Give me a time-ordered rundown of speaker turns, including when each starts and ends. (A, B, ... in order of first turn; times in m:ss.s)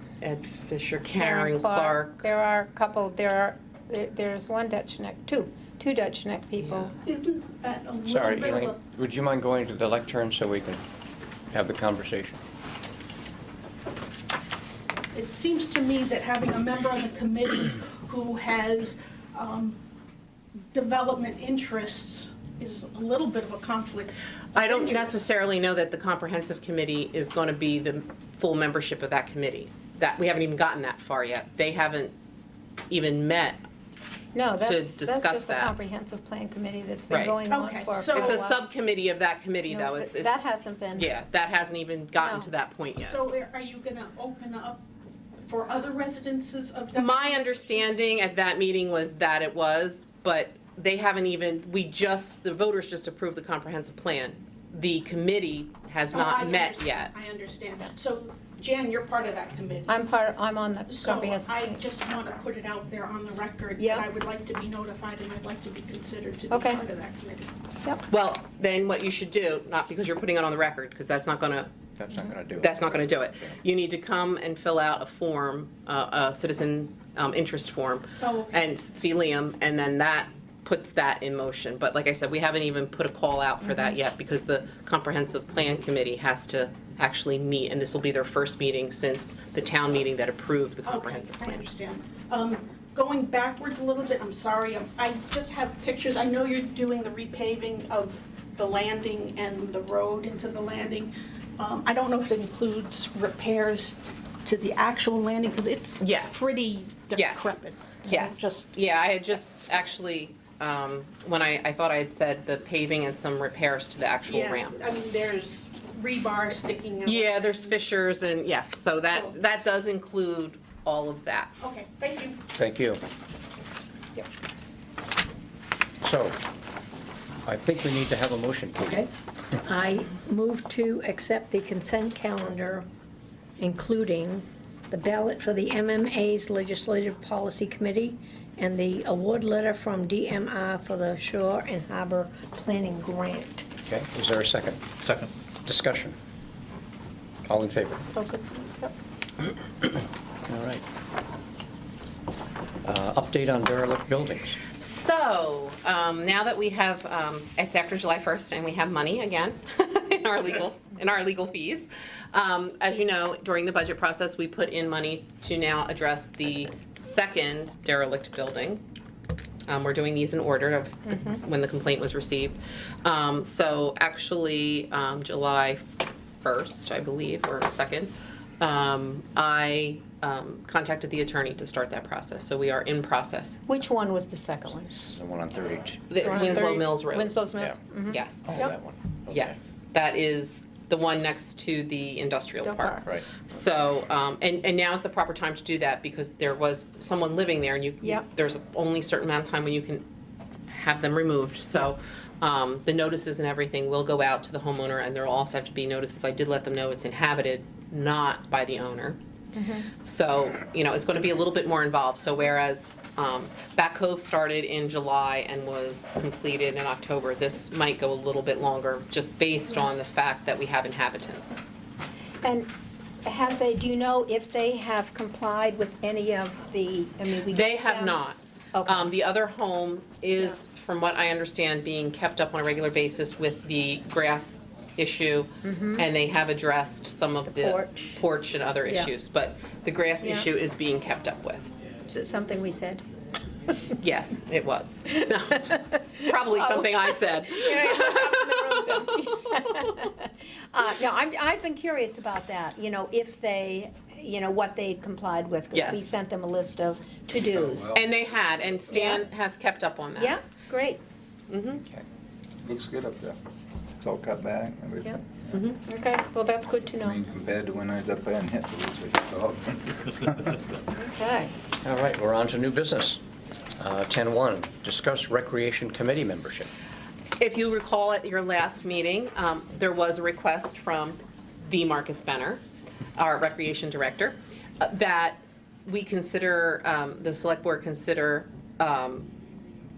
0:00.2-0:02.2 A
0:01.2-0:07.0 B
0:06.6-0:06.9 A
0:07.0-0:08.8 C
0:08.0-0:10.8 D
0:11.5-0:12.4 D
0:15.1-0:19.8 C
0:20.6-0:25.1 C
0:24.5-0:32.1 A
0:32.9-0:33.6 A
0:34.3-0:38.6 B
0:34.6-0:35.7 A
0:37.1-0:37.4 A
0:37.5-0:38.4 C
0:38.1-0:43.2 A
0:39.7-0:41.1 B
0:42.1-0:42.5 B
0:43.0-0:44.8 C
0:45.4-0:47.4 C
0:46.9-0:57.1 A
0:56.1-1:00.0 C
0:59.9-1:01.8 B
1:00.9-1:07.5 C
1:03.8-1:04.0 B
1:06.5-1:06.8 B
1:07.8-1:08.0 B
1:08.1-1:31.7 A
1:12.0-1:13.5 D
1:18.2-1:18.5 C
1:30.8-1:48.7 C
1:46.0-1:46.6 A
1:47.1-1:54.8 A
1:54.3-1:57.7 C
1:57.0-2:01.5 A
2:01.6-2:02.4 C
2:02.5-2:03.0 D
2:06.0-2:06.4 D
2:07.4-2:09.0 D
2:09.6-2:12.9 E
2:13.6-2:23.7 E
2:23.8-2:24.9 D
2:25.6-2:26.2 D
2:27.4-2:28.0 D
2:28.1-2:28.9 B
2:30.5-2:30.8 D
2:32.8-2:34.6 D
2:34.7-2:48.8 A
2:49.7-3:03.6 A
3:03.7-3:05.0 B
3:05.1-3:06.6 D
3:06.1-3:07.4 A
3:06.2-3:08.7 B
3:08.1-3:08.7 A
3:08.4-3:09.6 D
3:09.3-3:20.0 A
3:12.6-3:13.0 B
3:13.0-3:13.3 D
3:20.7-3:29.2 A
3:29.5-3:29.9 B
3:30.0-3:41.6 A
3:42.4-3:42.7 B
3:43.2-3:48.2 B
3:47.5-4:01.7 A
3:48.7-3:49.1 B
3:55.6-3:56.1 B
3:57.5-3:58.2 B
4:00.2-4:00.5 B
4:02.1-4:03.0 B
4:04.0-4:09.1 A
4:06.6-4:18.0 B
4:15.7-4:16.1 A
4:17.9-4:20.4 A
4:18.9-4:19.2 B
4:20.2-4:21.0 B
4:21.5-4:21.8 A
4:22.6-4:23.4 F
4:24.0-4:25.1 F
4:25.5-4:25.8 A
4:25.8-4:27.2 B
4:27.1-4:30.6 F
4:31.0-4:31.5 B
4:31.8-4:33.2 D
4:33.8-4:36.7 D
4:37.4-4:42.6 A
4:43.2-4:49.3 A